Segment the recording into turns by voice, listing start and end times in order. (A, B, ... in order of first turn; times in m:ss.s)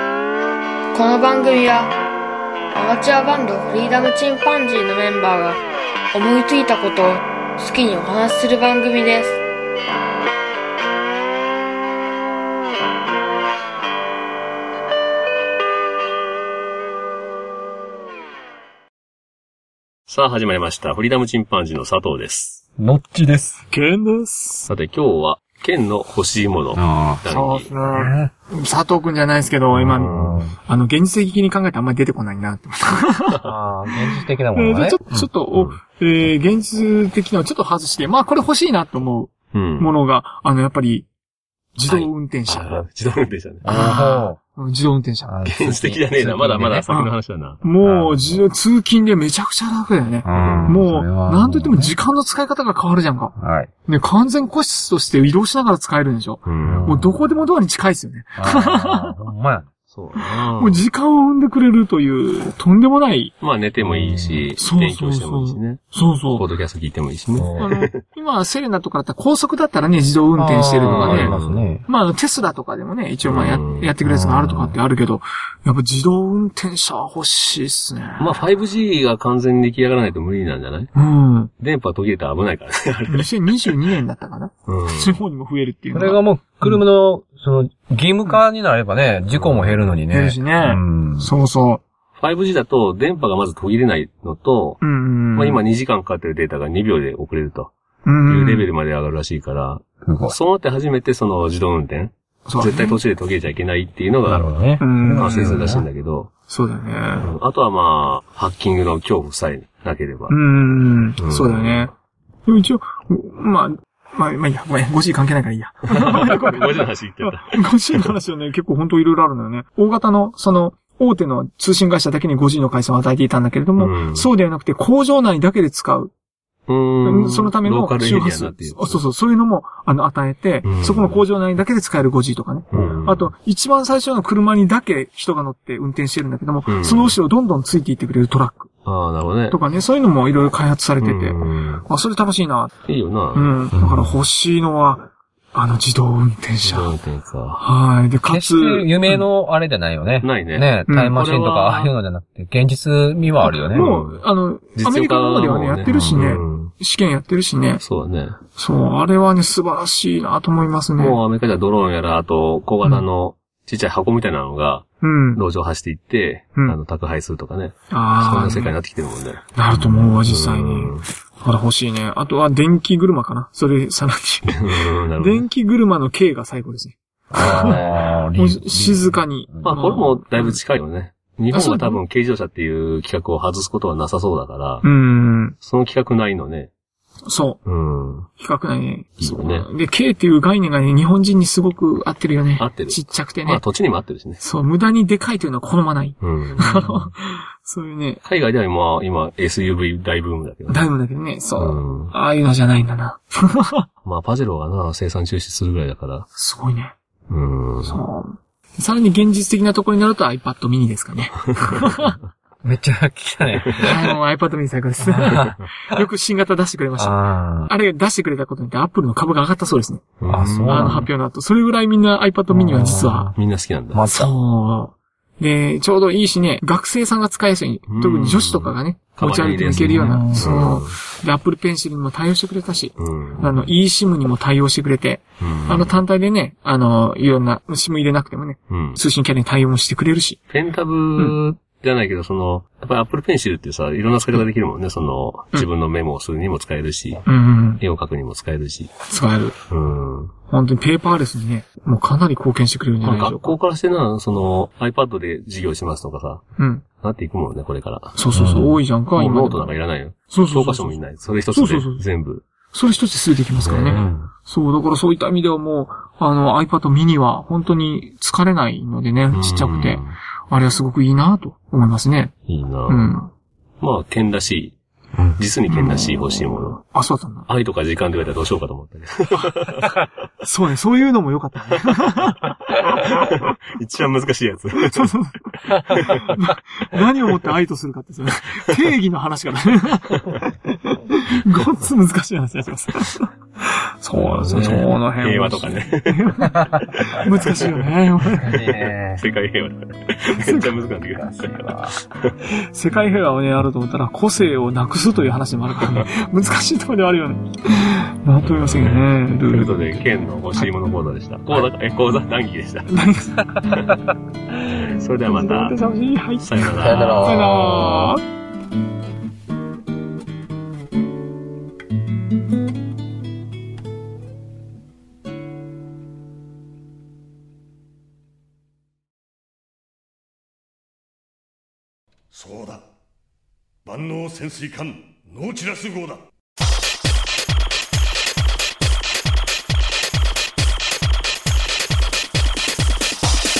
0:00.9-0:01.9 A
0:02.8-0:05.6 A
0:06.1-0:09.4 A
0:20.1-0:22.6 B
0:22.8-0:23.6 C
0:23.7-0:24.7 D
0:24.7-0:27.7 B
0:26.7-0:27.2 C
0:27.3-0:33.4 D
0:27.9-0:28.3 C
0:29.7-0:30.6 C
0:29.9-0:30.4 B
0:33.4-0:35.3 C
0:34.5-0:41.1 D
0:35.5-0:35.8 B
0:39.5-0:39.9 B
0:41.8-0:42.7 D
0:41.8-0:43.7 B
0:43.6-0:44.4 C
0:43.6-0:45.4 D
0:45.2-0:46.9 C
0:45.5-0:47.6 B
0:46.9-0:59.2 D
0:47.8-0:48.4 C
0:50.2-0:52.0 C
0:50.4-0:50.8 B
0:53.4-0:53.7 C
0:56.4-0:57.0 B
0:56.6-0:57.4 C
0:58.4-0:59.7 C
0:59.9-1:00.8 B
1:00.5-1:03.3 D
1:03.4-1:08.0 B
1:03.8-1:04.5 C
1:04.6-1:06.5 D
1:07.3-1:07.7 C
1:07.6-1:11.4 D
1:10.4-1:11.9 C
1:10.8-1:11.7 B
1:11.9-1:18.4 D
1:13.2-1:13.9 B
1:14.0-1:14.8 C
1:18.2-1:20.9 B
1:21.0-1:21.5 D
1:21.6-1:23.3 B
1:23.1-1:26.8 D
1:24.7-1:25.2 B
1:25.9-1:31.3 C
1:29.3-1:29.9 B
1:30.1-1:31.8 D
1:32.2-1:34.8 B
1:34.8-1:35.6 D
1:35.3-1:37.7 B
1:38.0-1:38.7 D
1:38.3-1:46.3 B
1:40.0-1:40.4 C
1:42.5-1:43.0 D
1:44.3-1:45.9 C
1:44.8-1:45.4 D
1:46.5-1:47.3 D
1:47.2-1:50.4 B
1:50.3-1:51.9 D
1:51.2-1:51.9 B
1:52.5-2:06.1 D
1:56.0-1:58.1 B
2:03.8-2:04.3 B
2:06.7-2:09.0 B
2:07.0-2:18.7 D
2:10.6-2:11.2 B
2:12.7-2:13.3 B
2:16.7-2:17.2 B
2:18.8-2:19.6 B
2:19.5-2:22.7 D
2:21.0-2:21.8 B
2:22.9-2:23.5 B
2:23.3-2:26.9 D
2:23.8-2:24.1 C
2:26.6-2:27.6 B
2:27.6-2:29.3 D
2:28.2-2:33.9 C
2:30.2-2:31.9 B
2:30.9-2:31.2 D
2:33.4-2:37.8 D
2:33.7-2:34.2 B
2:34.8-2:36.7 B
2:35.9-2:36.2 C
2:37.8-2:38.4 B
2:38.6-2:41.2 D
2:41.0-2:51.1 B
2:45.0-2:45.4 D
2:47.9-2:48.8 D
2:49.6-3:00.6 D
2:54.5-2:55.5 B
2:57.3-2:59.8 C
2:57.5-2:58.0 B
2:59.6-3:04.9 B
3:01.5-3:02.0 D
3:04.8-3:05.6 D
3:05.6-3:06.7 B
3:07.3-3:07.6 D
3:07.7-3:08.3 B
3:08.4-3:13.6 D
3:09.2-3:09.7 B
3:12.6-3:14.4 B
3:14.4-3:18.2 D
3:16.2-3:17.1 B
3:18.2-3:20.9 B
3:20.7-3:23.9 D
3:21.6-3:22.1 B
3:24.0-3:26.3 B
3:26.4-3:26.9 D
3:27.3-3:28.0 B
3:27.8-3:32.2 D
3:32.6-3:34.2 C
3:33.8-3:40.1 D
3:35.0-3:35.6 C
3:37.0-3:37.7 C
3:40.2-3:41.0 B
3:40.3-3:41.1 C
3:40.7-3:43.3 D
3:42.5-3:43.4 C
3:43.4-3:44.0 B
3:43.9-3:44.3 C
3:44.1-4:00.4 D
3:47.9-3:51.0 B
3:49.7-3:50.5 C
3:53.0-3:53.7 B
3:55.4-3:56.0 B
3:58.7-3:59.0 B
4:00.5-4:07.3 B
4:07.3-4:07.8 D
4:07.8-4:08.9 B
4:09.1-4:09.6 D
4:09.7-4:10.3 B
4:10.5-4:13.6 D
4:13.0-4:16.4 B
4:16.6-4:16.8 D
4:17.0-4:22.4 B
4:18.2-4:19.7 D
4:18.3-4:18.8 C
4:20.3-4:21.0 D
4:21.5-4:22.0 D
4:22.7-4:32.3 D
4:23.6-4:24.2 B
4:23.9-4:24.3 C
4:29.3-4:30.2 B
4:32.5-4:33.1 B
4:32.9-4:33.3 D
4:33.8-4:34.8 B
4:35.4-4:36.8 B
4:35.7-4:36.0 D
4:36.8-4:37.5 D
4:37.5-4:39.9 B
4:40.4-4:42.4 D
4:42.7-4:45.1 B
4:44.8-4:56.5 D
4:45.7-4:46.3 B
4:54.2-4:56.3 B
4:57.1-4:58.7 D
4:58.3-4:59.3 C
4:59.2-5:02.3 B
5:00.4-5:00.7 D
5:01.1-5:02.0 C
5:02.7-5:10.0 D
5:08.4-5:12.9 B
5:12.9-5:13.7 D
5:14.6-5:15.8 B
5:15.3-5:18.2 D
5:16.4-5:17.5 B
5:16.8-5:18.1 C
5:32.3-5:32.9 E
5:33.9-5:36.2 E